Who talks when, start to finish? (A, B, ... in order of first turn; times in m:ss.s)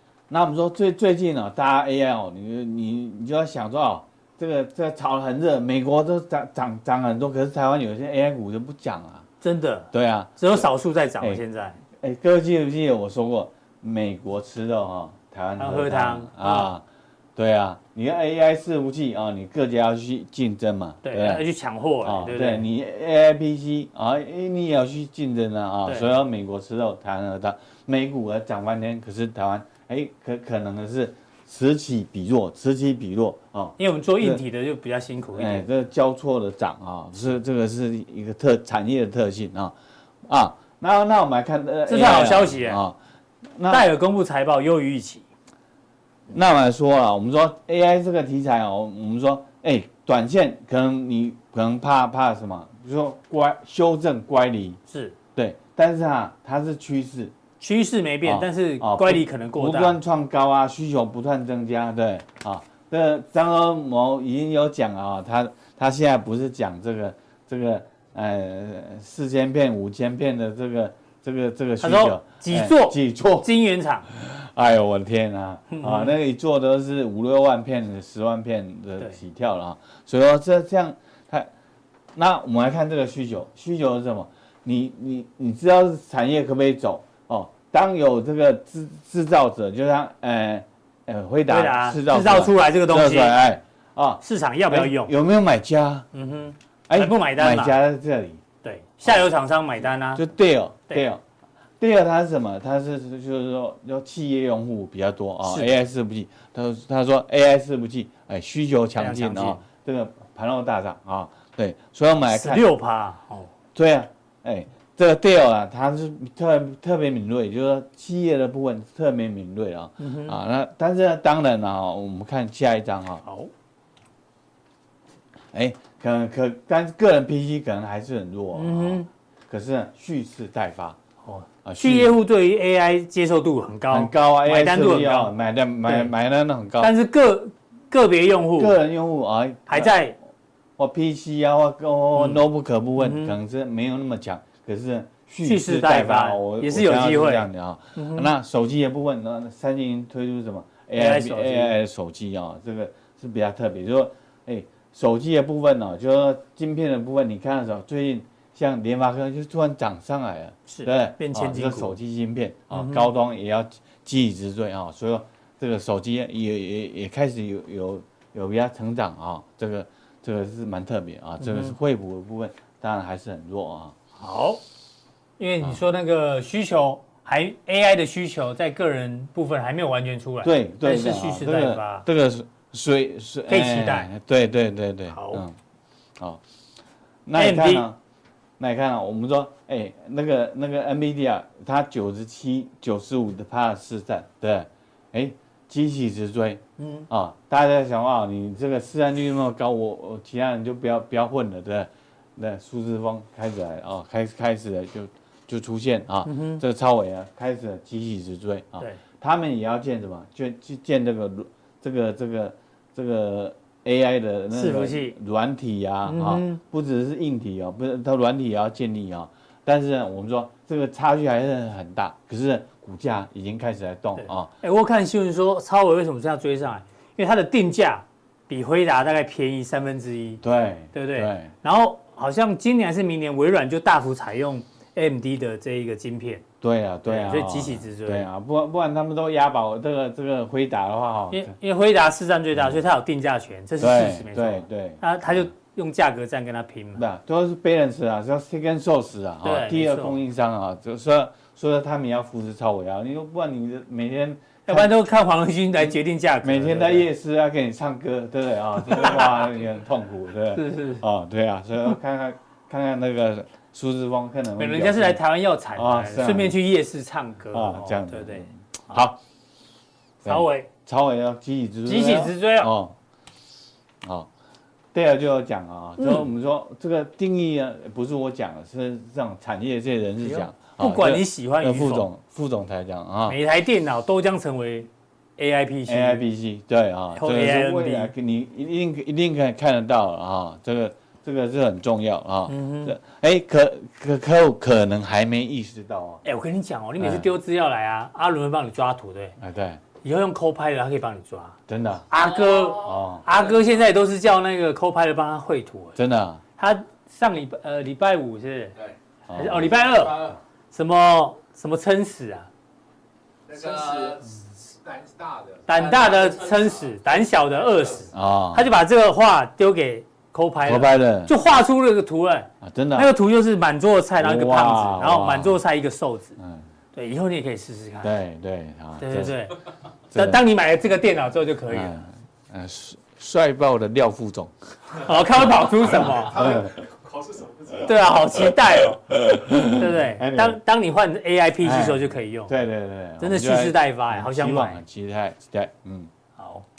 0:00.3-0:09.3 A
0:09.4-0:11.8 B
0:09.9-0:10.7 A
0:12.0-0:16.8 A
0:15.6-0:16.7 B
0:17.4-0:21.4 A
0:21.0-0:22.6 B
0:22.0-0:34.4 A
0:25.8-0:26.1 B
0:33.8-0:35.6 B
0:35.3-0:39.7 A
0:40.2-0:43.0 A
0:41.9-0:42.8 B
0:43.6-0:43.9 A
0:43.7-0:45.2 B
0:46.3-0:54.8 A
0:54.9-0:55.2 B
0:55.3-0:57.3 A
0:57.6-1:00.0 B
0:58.2-1:13.5 A
1:11.8-1:14.1 B
1:14.1-1:21.5 A
1:15.7-1:16.2 B
1:22.1-1:36.1 A
1:31.5-1:33.4 B
1:34.2-1:35.1 B
1:36.1-1:37.8 B
1:36.9-1:38.4 A
1:38.6-1:40.2 B
1:39.0-1:39.3 A
1:40.1-1:41.2 A
1:41.8-1:52.7 A
1:45.4-1:45.7 B
1:49.0-1:49.6 B
1:52.2-1:53.5 B
1:53.7-2:03.2 A
2:00.0-2:00.4 B
2:03.2-2:03.5 B
2:05.5-2:11.0 A
2:08.5-2:09.1 B
2:11.2-2:15.3 B
2:11.6-2:12.1 A
2:13.9-2:16.9 A
2:15.8-2:16.1 B
2:16.8-2:18.8 B
2:18.6-2:20.0 A
2:19.7-2:20.2 B
2:20.8-2:53.9 A
2:22.1-2:22.4 B
2:23.0-2:23.4 B
2:25.4-2:28.3 B
2:30.9-2:31.7 B
2:40.7-2:42.0 B
2:42.7-2:43.1 B
2:51.4-2:51.8 B
2:54.2-2:54.6 B
2:55.4-3:02.0 B
3:00.4-3:05.6 A
3:03.5-3:04.1 B
3:05.1-3:05.4 B
3:07.2-3:08.0 A
3:07.4-3:07.8 B
3:08.6-3:44.5 A
3:16.8-3:17.1 B
3:26.2-3:26.6 B
3:34.5-3:35.2 B
3:36.0-3:36.6 B
3:44.2-3:50.4 B
3:50.4-3:51.5 A
3:50.9-3:56.4 B
3:56.6-4:01.5 A
3:57.0-3:58.3 B
4:01.3-4:07.0 B
4:03.8-4:05.5 A
4:07.0-4:14.9 A
4:09.4-4:10.2 B
4:14.7-4:17.1 B
4:15.9-4:25.2 A
4:18.8-4:19.4 B
4:20.5-4:21.0 B
4:24.6-4:28.5 B
4:25.7-4:26.6 A
4:27.5-4:29.2 A
4:30.2-4:32.9 A
4:30.2-4:30.7 B
4:31.8-4:32.7 B
4:34.0-4:34.3 A
4:34.9-4:43.4 A
4:36.0-4:36.3 B
4:40.2-4:42.1 B
4:43.3-4:46.2 B
4:45.9-4:56.2 A
4:47.1-4:48.1 B
4:52.5-4:53.0 B
4:56.2-4:59.4 B
4:57.0-4:57.3 A
4:59.4-4:59.8 A
5:00.0-5:01.6 B
5:01.7-5:02.0 A
5:02.1-5:06.0 B
5:02.8-5:03.2 A
5:06.0-5:06.4 A
5:06.6-5:08.8 B
5:09.3-5:10.3 A
5:09.3-5:12.5 B
5:09.8-5:10.4 C
5:13.5-5:18.1 C
5:15.7-5:26.4 B
5:18.1-5:18.7 A
5:20.6-5:21.3 A
5:22.6-5:23.1 A
5:24.2-5:25.6 A
5:26.4-5:26.6 A
5:26.9-5:28.1 B
5:28.0-5:29.4 A
5:29.0-5:29.6 B
5:30.1-5:30.4 A
5:30.1-5:32.0 B
5:31.7-5:35.1 A
5:35.0-5:36.6 B
5:35.8-5:38.3 C
5:36.3-5:36.8 A
5:37.8-5:42.5 B
5:39.1-5:40.6 A
5:41.6-5:46.1 A
5:43.2-5:44.8 B
5:46.4-5:46.6 B